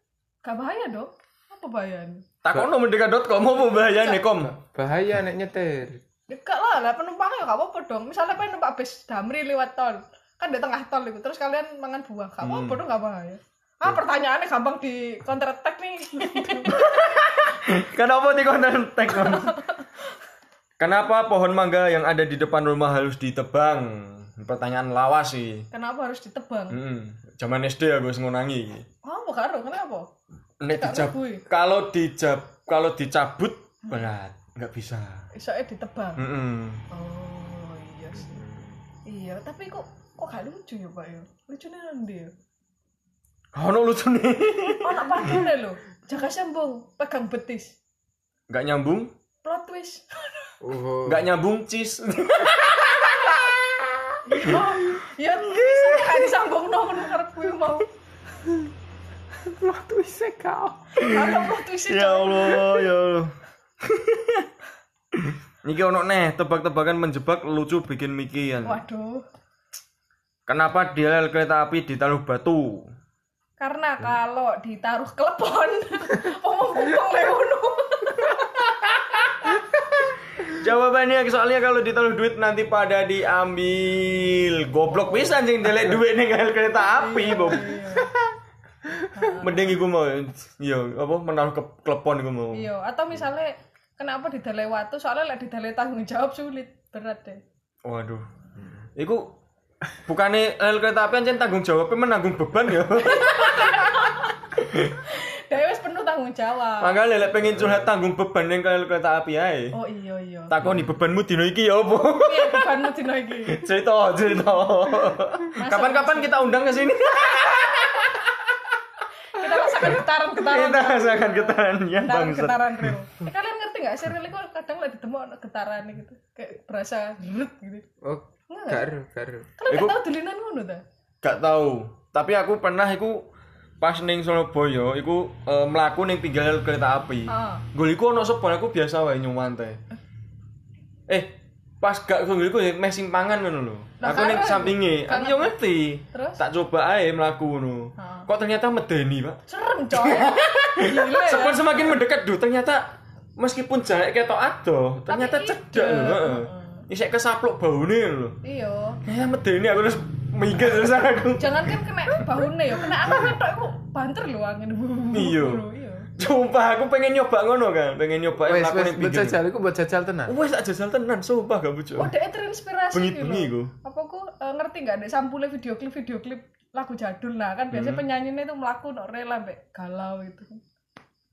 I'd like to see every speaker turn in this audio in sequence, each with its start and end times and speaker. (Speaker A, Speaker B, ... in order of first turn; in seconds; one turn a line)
Speaker A: 0.4-2.2
Speaker B: 2.4-4.5
Speaker A: 3.8-4.2
Speaker C: 4.4-6.0
Speaker A: 6.3-17.2
Speaker B: 12.4-12.8
Speaker B: 16.6-19.5
Speaker A: 19.1-19.9
Speaker B: 20.8-25.7
Speaker A: 25.7-26.8
Speaker B: 26.7-28.9
Speaker A: 29.0-30.1
Speaker B: 30.6-35.3
Speaker A: 30.7-31.4
Speaker A: 35.3-36.2
Speaker B: 36.2-36.8
Speaker A: 36.9-38.4
Speaker C: 38.1-38.8
Speaker A: 39.1-42.3
Speaker B: 43.5-45.4
Speaker A: 44.8-47.7
Speaker B: 48.5-49.1
Speaker A: 49.4-50.5
Speaker C: 50.6-51.3
Speaker B: 51.0-53.5
Speaker A: 54.3-57.9
Speaker B: 55.4-56.3
Speaker C: 59.4-61.0
Speaker B: 61.0-64.5
Speaker A: 61.0-62.8
Speaker B: 65.1-68.8
Speaker A: 68.6-69.2
Speaker B: 70.5-72.9
Speaker A: 73.6-79.6
Speaker B: 80.4-87.7
Speaker A: 86.8-88.1
Speaker A: 89.1-89.7
Speaker B: 89.3-92.7
Speaker A: 92.5-97.4
Speaker B: 97.8-98.2
Speaker B: 99.0-99.2
Speaker B: 100.0-104.0
Speaker A: 103.0-104.4
Speaker B: 104.5-105.0
Speaker A: 105.0-107.0
Speaker B: 106.8-109.8
Speaker A: 109.7-110.5
Speaker B: 110.5-112.7
Speaker A: 112.2-113.6
Speaker B: 113.5-118.3
Speaker A: 115.5-116.6
Speaker A: 119.3-127.8
Speaker B: 119.8-122.9
Speaker C: 128.0-129.5
Speaker A: 128.5-128.9
Speaker A: 129.6-130.8
Speaker B: 129.7-130.0
Speaker B: 131.2-133.2
Speaker B: 133.8-139.8
Speaker A: 137.3-137.6
Speaker B: 141.1-158.4
Speaker A: 144.0-145.6
Speaker A: 146.1-146.4
Speaker A: 148.0-148.3
Speaker A: 149.5-151.9
Speaker A: 155.1-156.8
Speaker A: 158.4-159.0
Speaker B: 159.0-162.2
Speaker A: 161.4-166.1
Speaker B: 162.8-163.3
Speaker B: 165.1-165.6
Speaker B: 166.2-169.4
Speaker C: 168.4-170.3
Speaker B: 170.3-172.1
Speaker A: 171.9-180.6
Speaker B: 172.9-173.7
Speaker B: 177.7-178.0